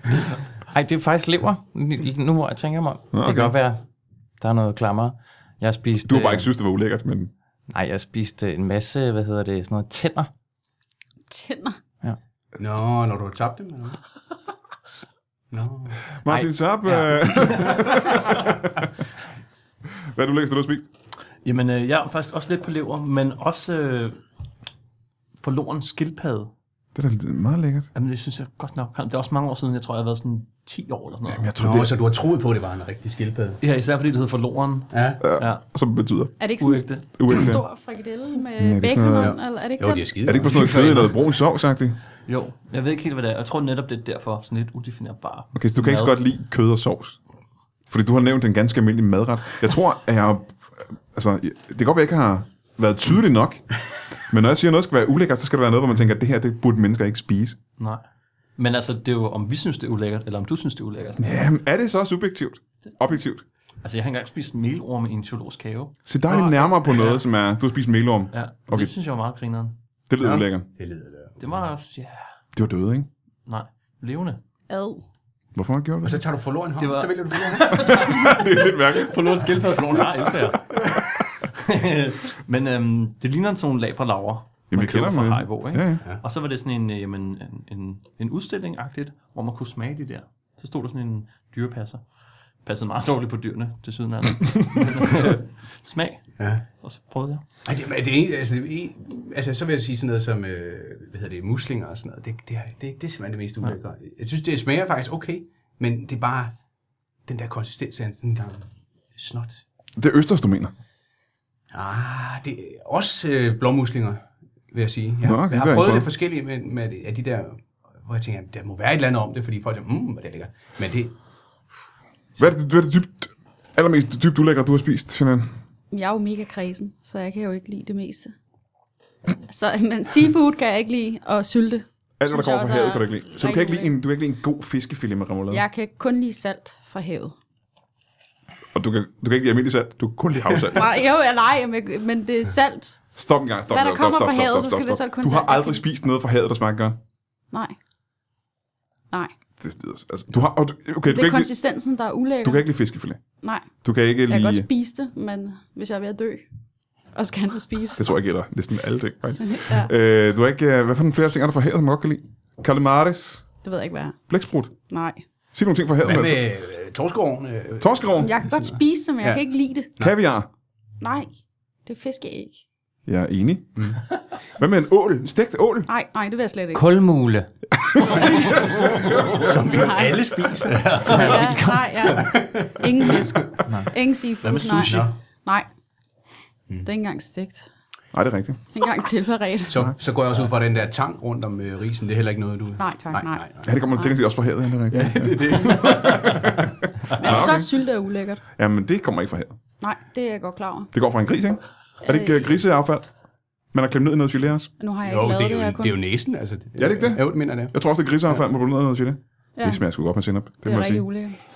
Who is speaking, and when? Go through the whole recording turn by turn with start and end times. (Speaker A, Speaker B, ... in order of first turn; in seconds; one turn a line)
Speaker A: 0.7-3.8
Speaker B: 3.1-3.5
Speaker A: 4.4-6.5
Speaker B: 6.0-7.3
Speaker A: 7.7-10.3
Speaker C: 11.3-11.8
Speaker D: 12.6-14.0
Speaker D: 15.5-16.0
Speaker B: 16.2-18.9
Speaker A: 16.3-17.6
Speaker B: 20.1-20.9
Speaker E: 21.4-24.2
Speaker E: 25.4-26.5
Speaker B: 26.9-27.9
Speaker E: 27.9-31.5
Speaker B: 31.3-31.9
Speaker D: 31.6-33.6
Speaker E: 33.6-35.6
Speaker D: 34.9-35.2
Speaker B: 35.2-36.4
Speaker C: 36.4-40.2
Speaker E: 36.6-37.4
Speaker B: 37.1-37.6
Speaker B: 38.6-39.4
Speaker D: 39.2-41.1
Speaker B: 40.2-42.0
Speaker E: 42.3-46.2
Speaker B: 45.5-47.2
Speaker B: 47.9-53.7
Speaker B: 54.3-57.6
Speaker E: 58.6-61.3
Speaker B: 61.2-63.4
Speaker E: 63.8-67.2
Speaker B: 66.0-68.9
Speaker E: 68.3-69.7
Speaker B: 70.1-70.7
Speaker D: 70.2-71.5
Speaker E: 71.4-72.3
Speaker B: 72.5-73.1
Speaker E: 73.5-74.4
Speaker C: 74.7-75.0
Speaker B: 75.5-76.2
Speaker D: 76.0-78.0
Speaker E: 76.8-80.9
Speaker B: 77.7-79.5
Speaker E: 81.5-92.0
Speaker B: 84.7-86.0
Speaker E: 92.6-97.4
Speaker D: 96.4-96.6
Speaker D: 97.6-106.5
Speaker D: 107.3-109.6
Speaker B: 110.0-110.7
Speaker D: 111.7-121.1
Speaker B: 115.2-116.1
Speaker B: 122.4-125.5
Speaker C: 125.9-128.3
Speaker C: 129.3-133.9
Speaker B: 132.2-135.6
Speaker C: 135.5-137.3
Speaker B: 138.7-140.8
Speaker C: 140.7-143.0
Speaker B: 143.1-147.0
Speaker C: 143.7-145.8
Speaker B: 149.6-151.5
Speaker C: 151.0-152.7
Speaker B: 152.4-153.2
Speaker C: 153.4-156.4
Speaker B: 153.8-154.7
Speaker C: 157.1-158.1
Speaker B: 158.0-163.5
Speaker C: 159.4-159.9
Speaker C: 163.6-164.2
Speaker B: 164.3-164.7
Speaker C: 164.9-165.2
Speaker B: 165.5-166.4
Speaker D: 166.0-169.4
Speaker B: 167.8-168.3
Speaker C: 168.2-169.9
Speaker B: 170.0-170.5
Speaker C: 171.0-171.3
Speaker C: 171.8-172.6
Speaker B: 173.1-174.0
Speaker B: 174.6-175.9
Speaker C: 175.9-176.9
Speaker A: 176.7-177.5
Speaker B: 177.8-178.4
Speaker C: 178.1-178.7
Speaker D: 179.3-183.6
Speaker C: 179.7-180.2
Speaker A: 181.0-181.9
Speaker C: 181.1-185.7
Speaker E: 184.4-185.1
Speaker D: 184.5-185.1
Speaker C: 186.8-187.7
Speaker B: 188.1-188.6
Speaker C: 188.7-189.9
Speaker D: 189.7-193.7
Speaker C: 192.8-193.4
Speaker B: 193.6-197.7
Speaker D: 194.9-196.6
Speaker C: 197.2-198.4
Speaker B: 198.6-199.6
Speaker C: 199.8-200.9
Speaker B: 200.9-203.1
Speaker C: 202.0-202.6
Speaker B: 203.7-204.7
Speaker C: 204.8-206.0
Speaker D: 205.0-207.7
Speaker B: 206.8-211.0
Speaker C: 209.6-209.8
Speaker C: 210.6-211.4